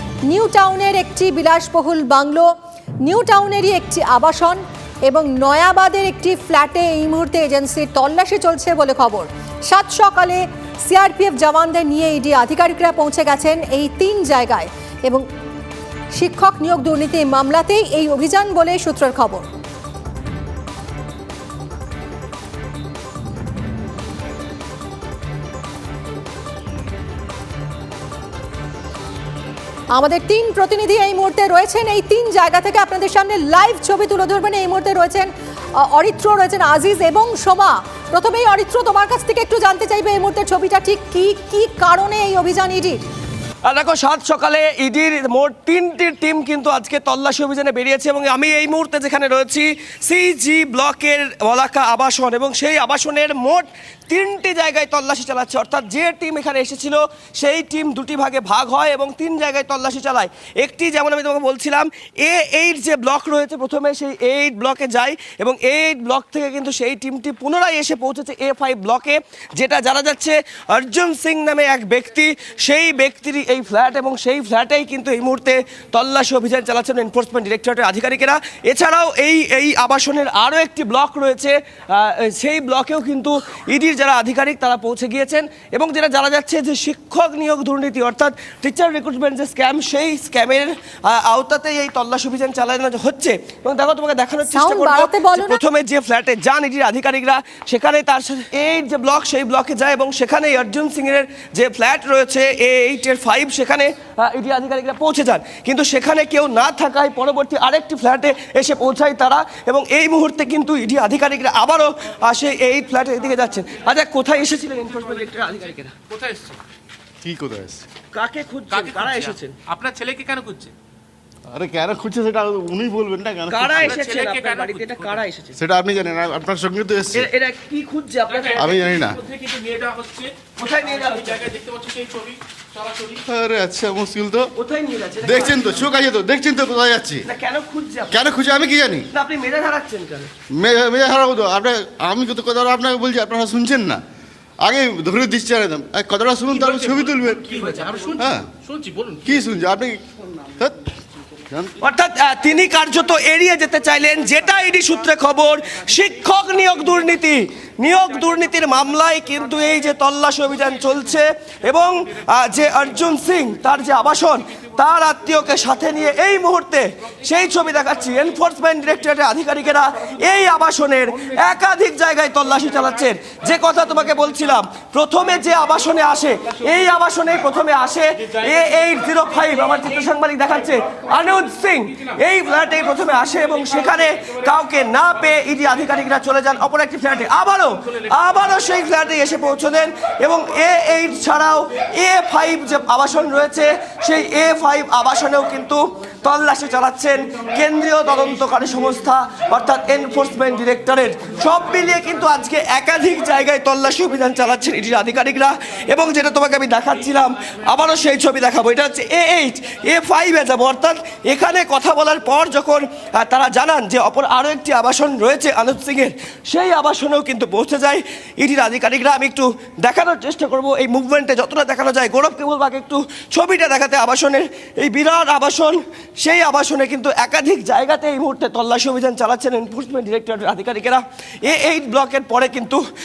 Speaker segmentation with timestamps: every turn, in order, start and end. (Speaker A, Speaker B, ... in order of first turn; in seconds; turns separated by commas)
Speaker A: 0.3-2.5, Speaker A: 3.0-15.2, Speaker A: 16.1-19.5, Speaker A: 29.9-43.0, Speaker B: 43.6-116.0, Speaker A: 94.5-95.6, Speaker C: 116.1-116.6, Speaker D: 117.2-117.9, Speaker B: 118.1-119.6, Speaker C: 118.7-120.7, Speaker D: 121.5-124.0, Speaker B: 123.5-125.6, Speaker C: 123.9-125.2, Speaker D: 125.6-127.3, Speaker B: 127.1-129.0, Speaker D: 128.6-129.2, Speaker C: 129.2-130.4, Speaker B: 130.6-131.6, Speaker C: 131.4-133.2, Speaker D: 133.2-134.5, Speaker B: 134.6-135.8, Speaker D: 135.2-137.2, Speaker B: 137.3-138.3, Speaker D: 138.1-139.1, Speaker B: 139.1-140.3, Speaker D: 140.6-144.0, Speaker D: 144.6-147.5, Speaker C: 146.5-149.3, Speaker D: 148.2-148.5, Speaker D: 149.2-150.9, Speaker D: 151.5-151.7, Speaker B: 151.8-232.8